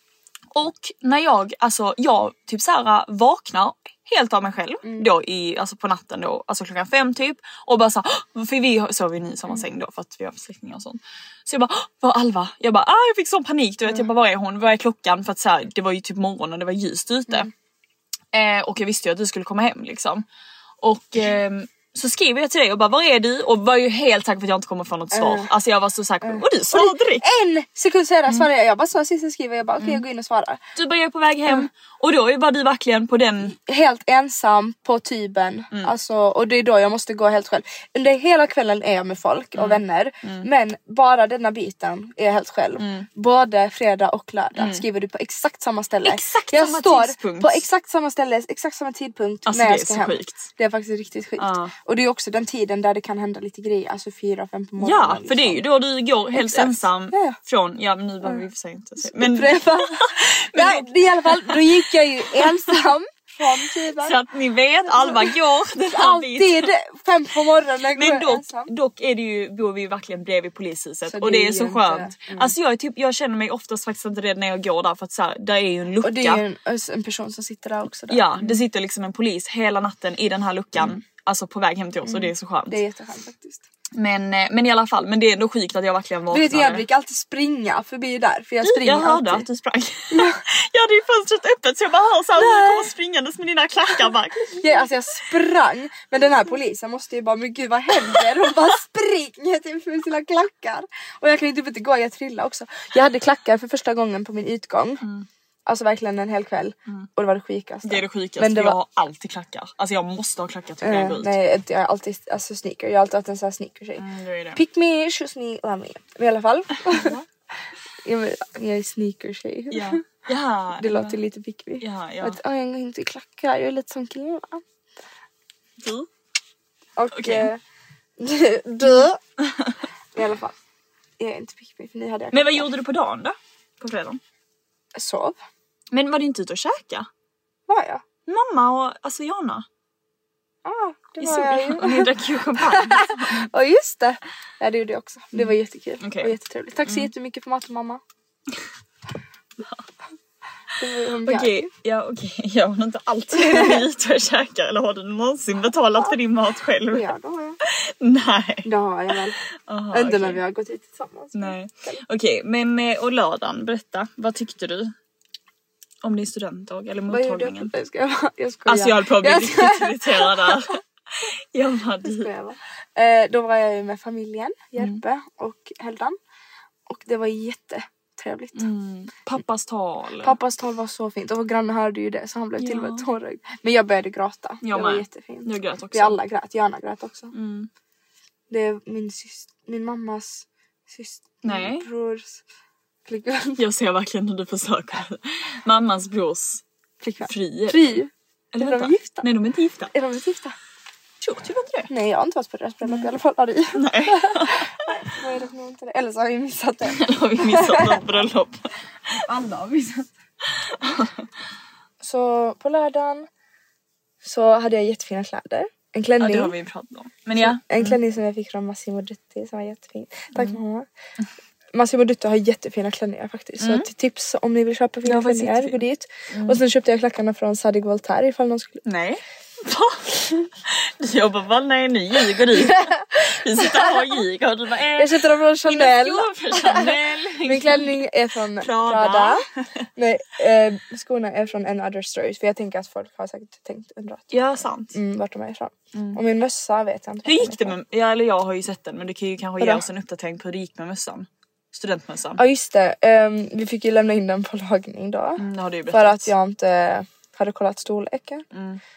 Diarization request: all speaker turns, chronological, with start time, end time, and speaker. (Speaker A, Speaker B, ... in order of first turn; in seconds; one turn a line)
Speaker A: 0.5-17.5
Speaker A: 18.3-20.2
Speaker A: 20.8-27.2
Speaker B: 25.1-25.5
Speaker B: 26.2-30.6
Speaker A: 30.8-33.5
Speaker B: 33.6-55.6
Speaker A: 39.5-40.5
Speaker A: 42.8-43.1
Speaker A: 44.6-44.8
Speaker A: 46.0-47.6
Speaker A: 49.5-50.5
Speaker A: 51.4-51.7
Speaker A: 54.8-62.7
Speaker B: 56.3-57.4
Speaker B: 59.0-64.2
Speaker A: 64.0-66.7
Speaker B: 64.9-65.3
Speaker B: 65.9-68.7
Speaker A: 68.0-76.4
Speaker B: 71.1-72.5
Speaker B: 76.0-78.6
Speaker A: 78.1-82.8
Speaker B: 82.0-83.6
Speaker A: 84.0-86.8
Speaker B: 86.3-89.5
Speaker A: 88.6-94.8
Speaker B: 90.1-90.4
Speaker B: 92.4-92.9
Speaker B: 94.6-105.0
Speaker A: 105.0-105.3
Speaker B: 105.7-108.8
Speaker A: 107.8-111.3
Speaker B: 110.8-114.0
Speaker A: 114.0-114.6
Speaker B: 114.5-117.1
Speaker A: 116.8-117.2
Speaker B: 118.0-120.0
Speaker A: 119.7-121.2
Speaker B: 120.8-124.6
Speaker A: 121.8-122.4
Speaker A: 125.8-126.1
Speaker B: 127.0-127.6
Speaker A: 127.1-127.5
Speaker B: 128.2-129.2
Speaker A: 128.8-129.8
Speaker B: 130.1-130.5
Speaker B: 131.2-132.7
Speaker A: 132.3-134.2
Speaker B: 134.9-135.4
Speaker A: 135.9-137.1
Speaker B: 137.7-138.0
Speaker A: 138.3-139.6
Speaker B: 140.6-142.1
Speaker A: 141.2-143.5
Speaker B: 142.6-148.0
Speaker A: 145.4-146.3
Speaker B: 150.8-151.7
Speaker A: 151.2-157.1
Speaker B: 153.3-153.8
Speaker B: 156.9-157.6
Speaker A: 157.9-158.7
Speaker B: 158.6-159.4
Speaker A: 159.7-160.4
Speaker B: 159.9-162.0
Speaker A: 161.3-164.9
Speaker A: 166.0-167.7
Speaker B: 167.1-170.6
Speaker A: 168.7-172.3
Speaker B: 172.0-176.2
Speaker B: 176.9-178.6
Speaker A: 178.6-180.4
Speaker B: 180.2-187.3
Speaker A: 182.6-183.1
Speaker A: 184.6-186.2
Speaker A: 187.3-187.7
Speaker B: 188.5-192.4
Speaker A: 191.4-191.9
Speaker B: 193.1-193.6
Speaker A: 193.6-196.6
Speaker B: 197.0-199.3
Speaker A: 197.3-198.0
Speaker A: 198.5-199.9
Speaker B: 199.9-200.5
Speaker A: 201.2-201.9
Speaker B: 201.9-208.0
Speaker A: 202.8-203.1
Speaker A: 203.8-204.9
Speaker A: 206.9-209.2
Speaker B: 209.2-210.1
Speaker A: 210.6-211.2
Speaker B: 212.0-213.3
Speaker B: 214.2-216.5
Speaker A: 216.2-218.0
Speaker B: 217.4-220.8
Speaker B: 221.7-228.8
Speaker A: 223.6-223.9
Speaker A: 225.0-226.6
Speaker A: 228.8-238.0
Speaker B: 232.6-234.0
Speaker B: 235.0-239.4
Speaker A: 238.6-239.6
Speaker B: 239.9-247.8
Speaker A: 244.3-245.0
Speaker A: 245.9-246.2
Speaker A: 247.2-252.4
Speaker B: 252.4-258.4
Speaker A: 255.4-256.3
Speaker A: 258.5-258.8